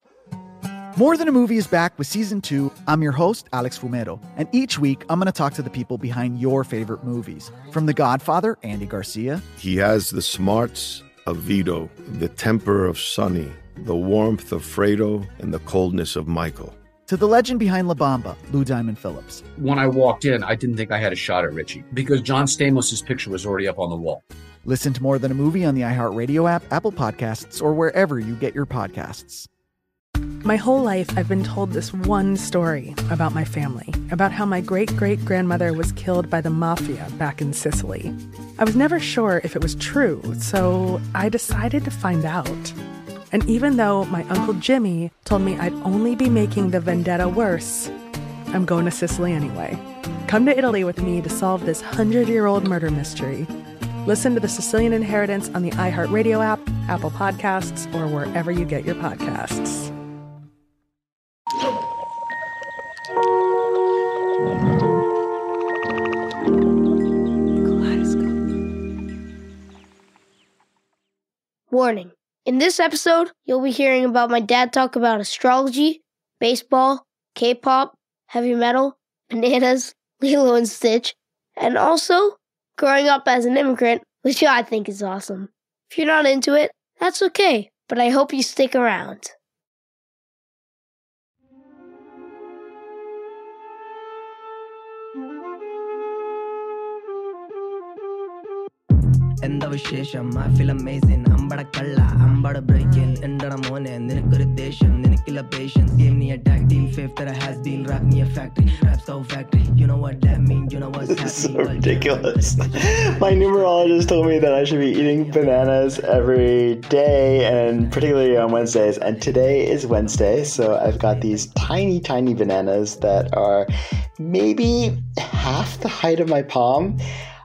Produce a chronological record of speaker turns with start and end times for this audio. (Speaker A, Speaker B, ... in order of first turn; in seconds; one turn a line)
Speaker A: 1.0-9.4
Speaker B: 9.6-16.8
Speaker A: 17.1-19.4
Speaker C: 19.6-24.2
Speaker A: 24.6-29.5
Speaker D: 30.4-42.8
Speaker D: 43.3-47.9
Speaker D: 48.5-53.5
Speaker D: 54.0-59.9
Speaker E: 71.7-89.3
Speaker F: 99.4-113.6
Speaker G: 111.0-127.0